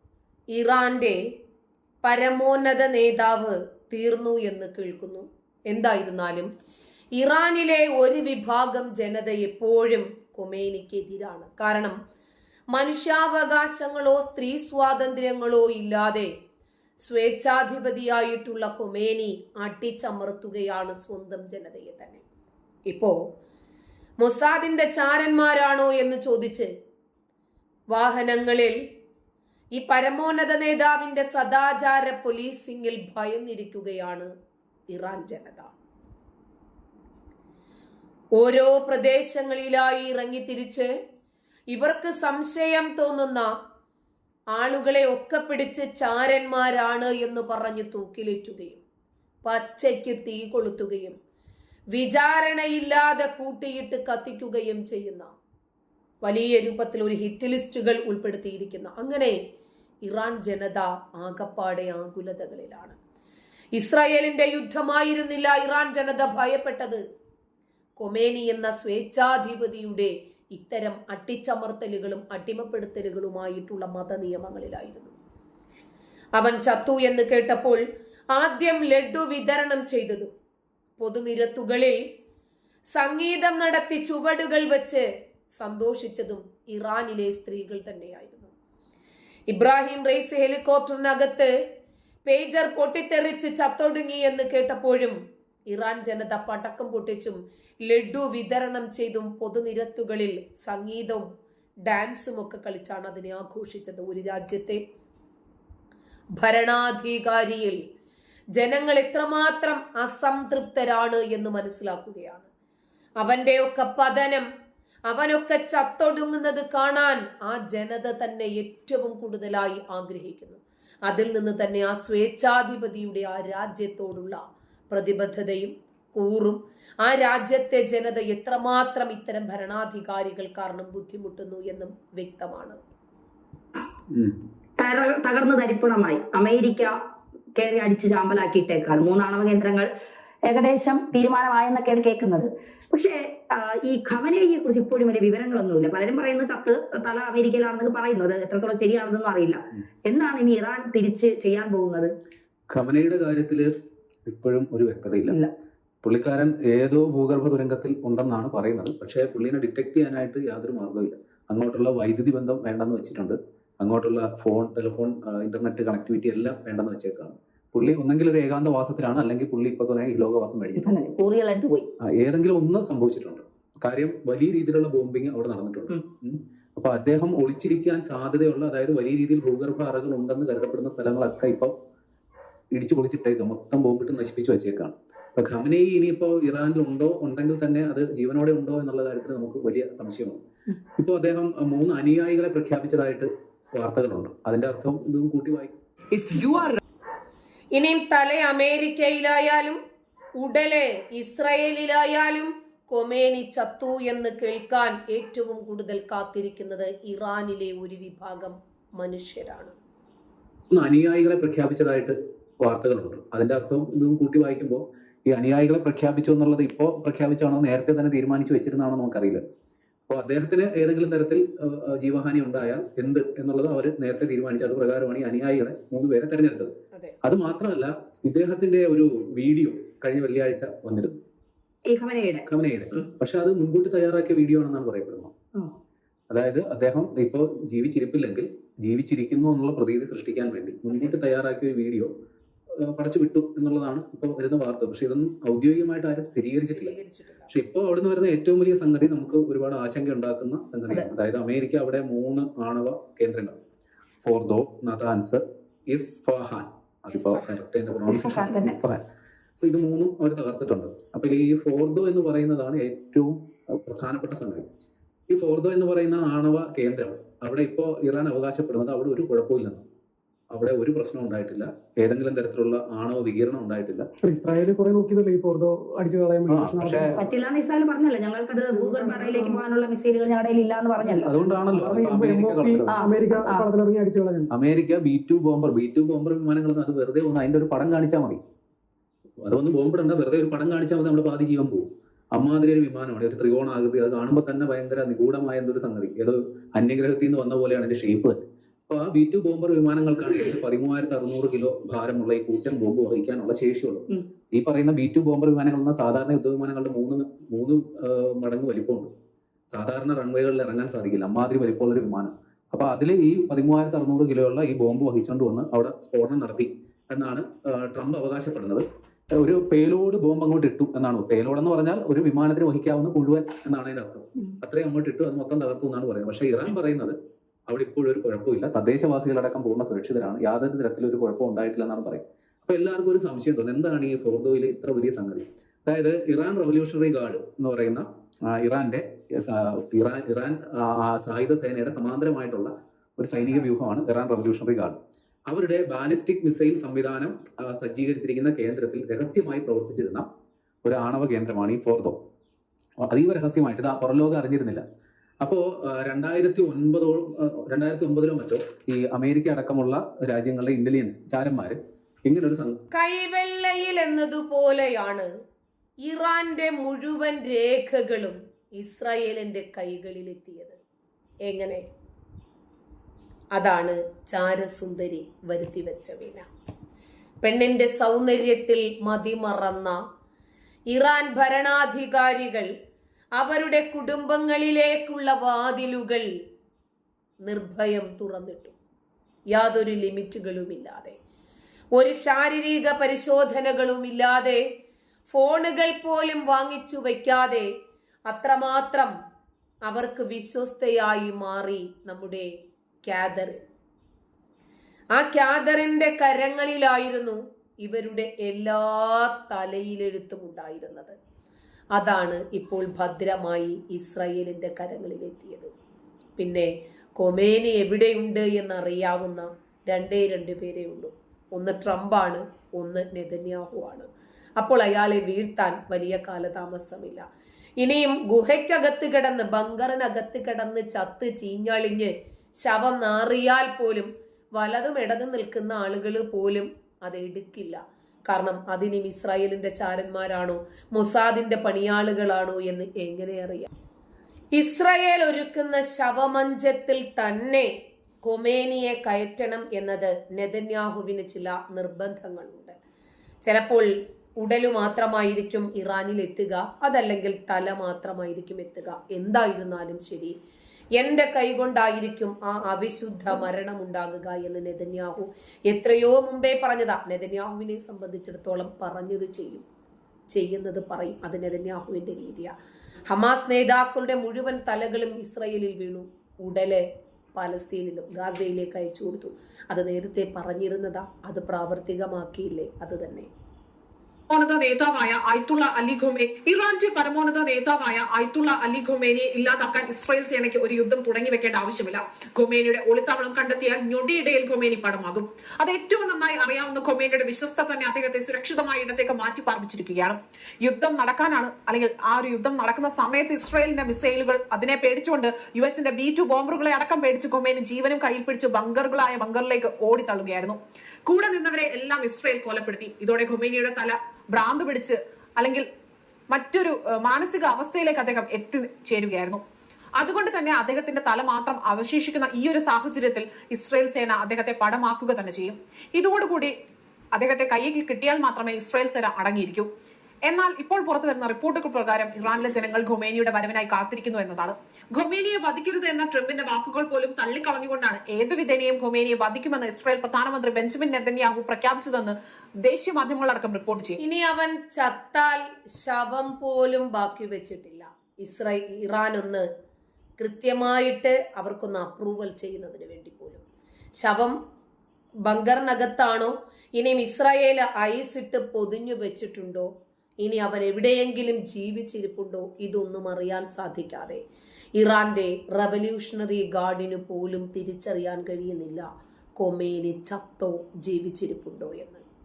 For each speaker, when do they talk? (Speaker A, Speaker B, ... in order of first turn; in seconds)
Speaker A: 0.5-1.2, 2.0-6.5, 7.2-11.9, 12.7-16.3, 17.0-22.2, 22.9-23.1, 24.2-26.7, 27.9-28.8, 29.8-34.3, 34.9-35.7, 38.4-40.9, 41.7-43.5, 44.5-48.8, 49.5-51.2, 51.9-55.3, 56.2-59.4, 60.1-63.0, 63.7-67.0, 68.0-75.1, 76.4-77.8, 78.3-80.3, 81.0-82.0, 82.9-85.0, 85.6-88.5, 89.5-91.5, 92.3-95.2, 95.7-101.3, 101.9-104.8, 106.4-107.8, 108.6-112.5, 113.2-114.5, 115.1-132.8, 197.7-199.8, 200.4-209.8, 246.7-247.5, 257.1-257.5, 362.9-365.3, 366.0-370.8, 371.4-371.8, 373.5-376.5, 377.4-380.0, 380.9-382.7, 383.4-386.3, 387.4-388.8, 389.5-391.2, 391.9-394.6, 395.3-397.7, 398.3-399.1, 399.9-402.5, 403.1-403.6, 405.1-411.2, 411.9-415.7, 416.4-424.1, 424.6-427.2, 427.8-432.1, 432.6-443.7, 444.5-447.7, 448.2-452.8, 453.4-460.3, 461.0-469.6, 470.3-472.5, 473.1-476.8, 477.4-483.3, 544.0-549.5, 550.2-553.4, 554.0-554.3, 555.3-559.7, 560.2-564.2, 564.8-568.9, 569.4-572.0
Speaker B: 134.8-137.0, 137.6-139.9, 140.5-152.1, 170.8-171.9, 231.9-233.1, 258.1-258.8, 277.2-281.3, 282.9-283.7
Speaker C: 152.7-153.7, 154.3-155.4, 156.0-170.9, 172.0-181.7, 182.7-190.4, 191.0-195.8, 210.7-219.4, 220.1-226.7, 227.2-231.2, 232.5-235.3, 236.3-242.1, 242.8-247.0, 247.5-253.6, 254.2-259.0, 259.6-264.7, 265.3-269.8, 270.5-274.1, 276.5-277.2, 281.1-282.9, 284.5-288.4, 289.4-309.1, 309.7-318.8, 319.4-327.2, 327.7-345.0, 345.5-350.3, 350.8-352.2, 353.1-354.8, 355.4-362.8
Speaker D: 274.2-277.2, 278.8-279.6, 281.5-284.5
Speaker E: 484.3-515.7, 516.3-519.4, 520.0-526.5, 527.1-529.7, 530.3-544.0